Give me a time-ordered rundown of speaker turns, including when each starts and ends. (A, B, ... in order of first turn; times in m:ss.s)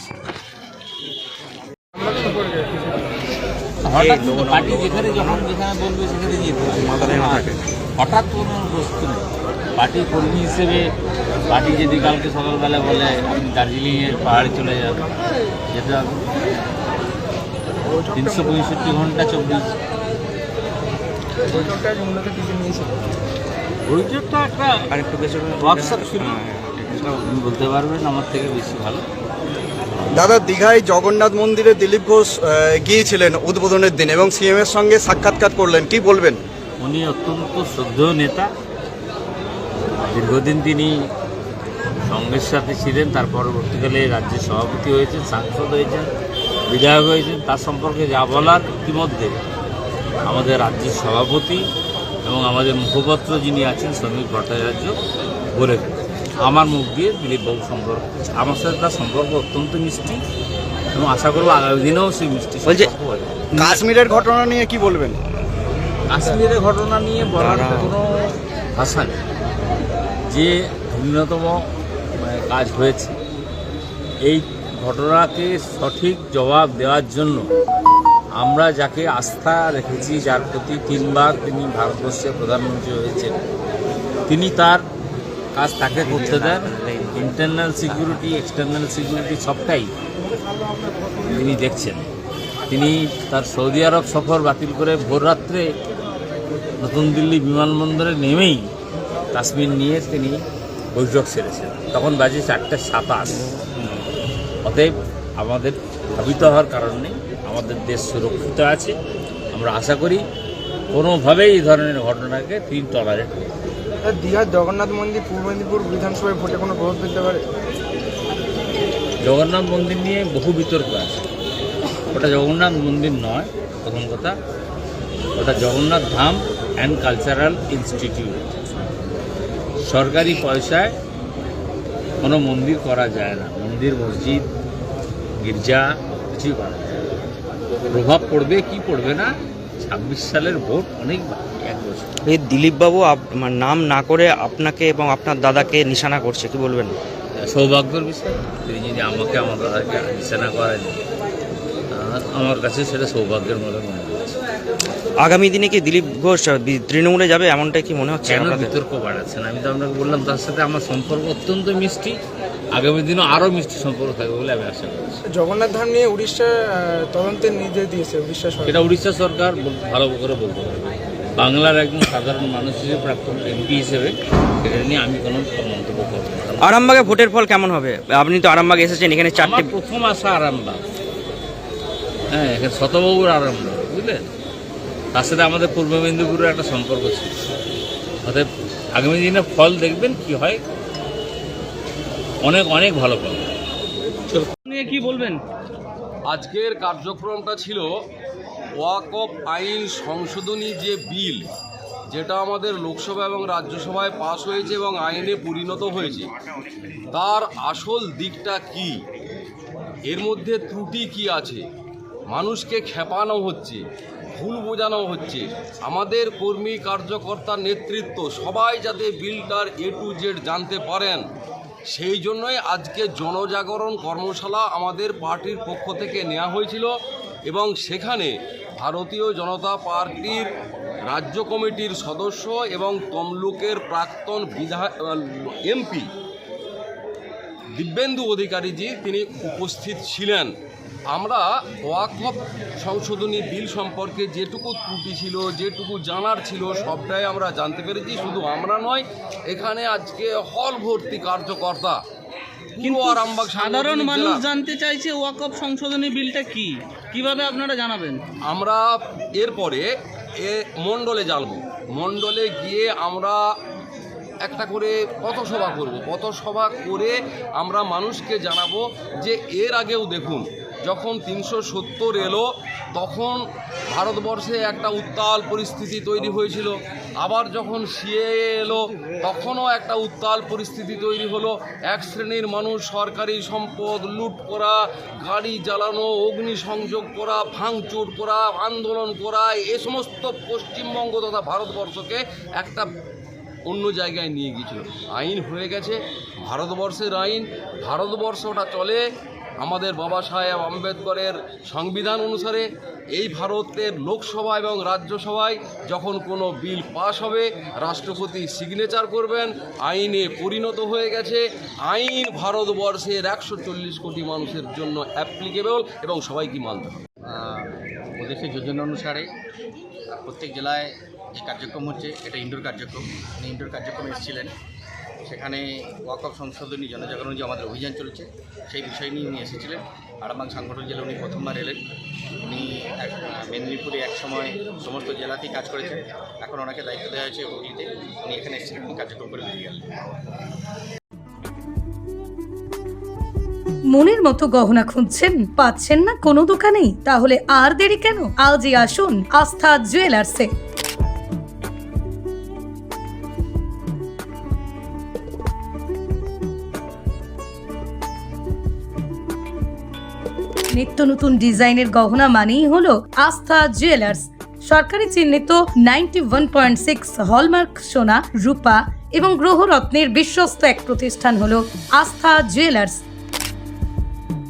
0:02.2-0:02.5 A
0:03.8-0:10.9 B
0:04.0-0:05.4 C
0:06.7-0:07.6 C
0:11.5-0:15.1 B
0:15.7-0:16.4 B
0:17.9-0:18.5 A
0:18.1-0:19.7 B
0:21.4-0:23.0 A
0:23.8-0:24.9 B
0:24.9-0:27.2 C
0:25.6-0:26.4 B
0:27.2-0:29.0 B
0:30.1-0:36.4 D
0:36.8-0:38.5 B
0:40.1-0:40.9 B
0:42.0-0:46.1 B
0:46.7-0:49.4 B
0:50.2-0:51.6 B
0:52.2-0:55.0 B
0:55.5-1:00.2 B
1:00.9-1:03.4 B
1:02.6-1:02.9 C
1:03.5-1:05.2 D
1:06.1-1:09.2 B
1:07.3-1:07.9 C
1:10.3-1:11.6 B
1:12.2-1:13.2 B
1:14.2-1:17.5 B
1:18.4-1:23.3 B
1:24.3-1:24.8 B
1:25.5-1:29.9 B
1:26.0-1:27.3 C
1:27.9-1:28.2 C
1:31.3-1:32.1 B
1:32.7-1:35.6 B
1:36.8-1:38.6 B
1:39.3-1:40.4 B
1:40.9-1:43.5 B
1:44.6-1:48.9 B
1:49.5-1:50.2 B
1:50.9-1:53.5 B
1:54.0-1:57.4 A
1:59.2-2:01.2 B
2:02.1-2:04.3 B
2:05.4-2:08.4 B
2:09.8-2:10.9 B
2:12.2-2:14.5 B
2:15.4-2:17.0 B
2:17.9-2:22.1 B
2:22.2-2:27.0 C
2:27.4-2:31.0 B
2:31.9-2:34.3 B
2:35.2-2:38.7 C
2:38.2-2:42.1 B
2:42.7-2:45.2 B
2:45.3-2:48.7 A
2:48.6-2:57.2 B
2:56.6-2:59.7 C
2:59.3-3:00.8 B
3:02.3-3:04.3 B
3:05.1-3:07.3 B
3:08.2-3:10.6 B
3:12.4-3:13.5 B
3:14.4-3:15.4 E
3:16.3-3:17.9 F
3:18.8-3:21.5 F
3:22.1-3:26.3 F
3:27.1-3:29.0 F
3:30.1-3:31.6 F
3:32.3-3:33.8 F
3:34.4-3:41.2 F
3:41.9-3:46.9 F
3:47.5-3:50.5 F
3:51.1-3:56.1 F
3:57.8-4:00.5 F
4:01.1-4:12.0 F
4:12.8-4:18.2 E
4:12.8-4:14.4 F
4:18.5-4:19.9 F
4:20.4-4:23.4 F
4:24.4-4:52.9 F
4:53.7-4:59.0 F
4:59.6-5:17.0 F
5:17.3-5:19.3 G
5:20.1-5:24.5 G
5:25.2-5:31.8 G
5:32.4-5:40.1 G
5:43.9-5:50.5 H
6:00.7-6:13.0 H